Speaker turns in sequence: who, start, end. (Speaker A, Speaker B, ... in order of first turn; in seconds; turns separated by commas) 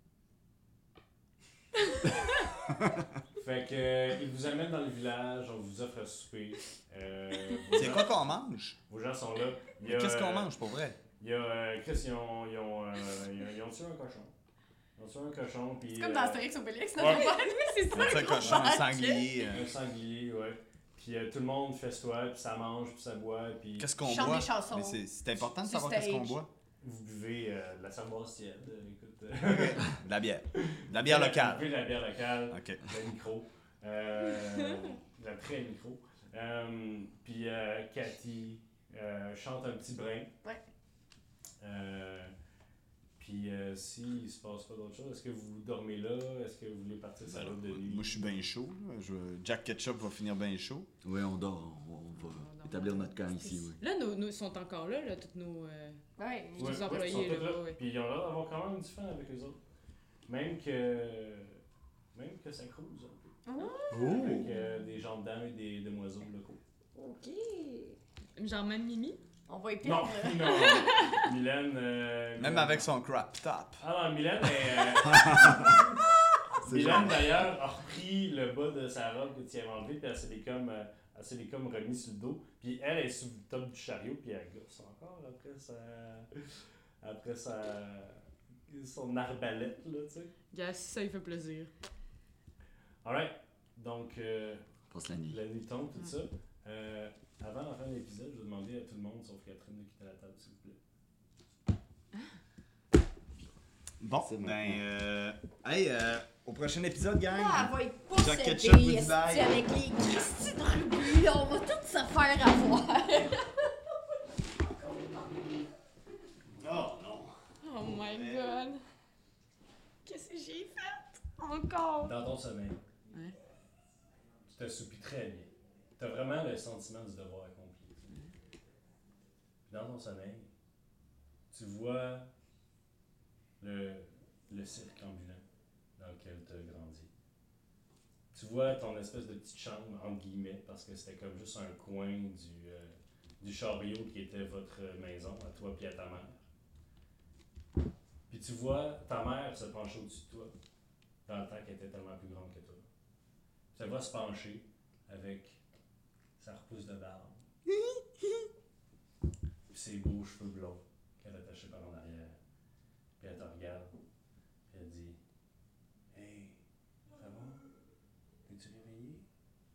Speaker A: 3.4-8.2, Speaker B: 7.7-8.8, Speaker A: 8.9-10.5, Speaker B: 9.8-11.0, Speaker A: 11.2-14.3, Speaker A: 15.0-16.4, Speaker C: 15.9-19.2, Speaker A: 17.0-17.2, Speaker D: 17.0-19.2, Speaker B: 17.9-19.7, Speaker A: 18.4-18.7, Speaker A: 19.5-23.9, Speaker B: 23.8-26.5, Speaker C: 24.0-26.4, Speaker A: 26.8-29.9, Speaker B: 29.4-31.7, Speaker A: 30.5-40.3, Speaker B: 32.5-32.8, Speaker A: 41.6-42.3, Speaker A: 43.2-48.2, Speaker B: 47.2-50.9, Speaker E: 51.0-53.8, Speaker D: 52.2-53.1, Speaker C: 53.4-53.7, Speaker D: 53.8-56.0, Speaker C: 56.2-57.1, Speaker D: 56.5-57.8, Speaker A: 56.6-59.6, Speaker A: 60.3-61.6, Speaker A: 62.1-63.4, Speaker C: 63.5-64.5, Speaker B: 63.9-64.5, Speaker A: 63.9-66.6, Speaker C: 66.9-68.0, Speaker D: 68.3-69.2, Speaker C: 69.5-70.9, Speaker A: 69.8-72.9, Speaker D: 70.5-71.2, Speaker B: 72.4-73.8, Speaker A: 73.8-86.3, Speaker B: 75.0-75.8, Speaker B: 76.6-77.3, Speaker A: 87.0-90.3, Speaker D: 90.5-91.7, Speaker A: 93.0-94.7, Speaker E: 94.9-95.4, Speaker A: 95.3-100.8, Speaker B: 104.0-109.6, Speaker E: 104.2-104.8, Speaker C: 107.3-113.7, Speaker C: 114.5-115.5, Speaker B: 116.6-118.5, Speaker D: 117.6-118.8, Speaker D: 120.0-122.1, Speaker A: 122.0-122.8, Speaker A: 124.5-128.1, Speaker A: 129.7-130.5, Speaker A: 131.5-132.3, Speaker A: 133.6-135.4, Speaker A: 136.0-137.1, Speaker A: 138.3-146.4, Speaker A: 148.3-150.5, Speaker A: 151.2-152.9, Speaker A: 153.7-155.6, Speaker A: 156.4-157.5, Speaker A: 159.7-162.4, Speaker A: 163.2-163.9, Speaker A: 164.7-165.2, Speaker A: 166.1-167.7, Speaker A: 168.4-169.2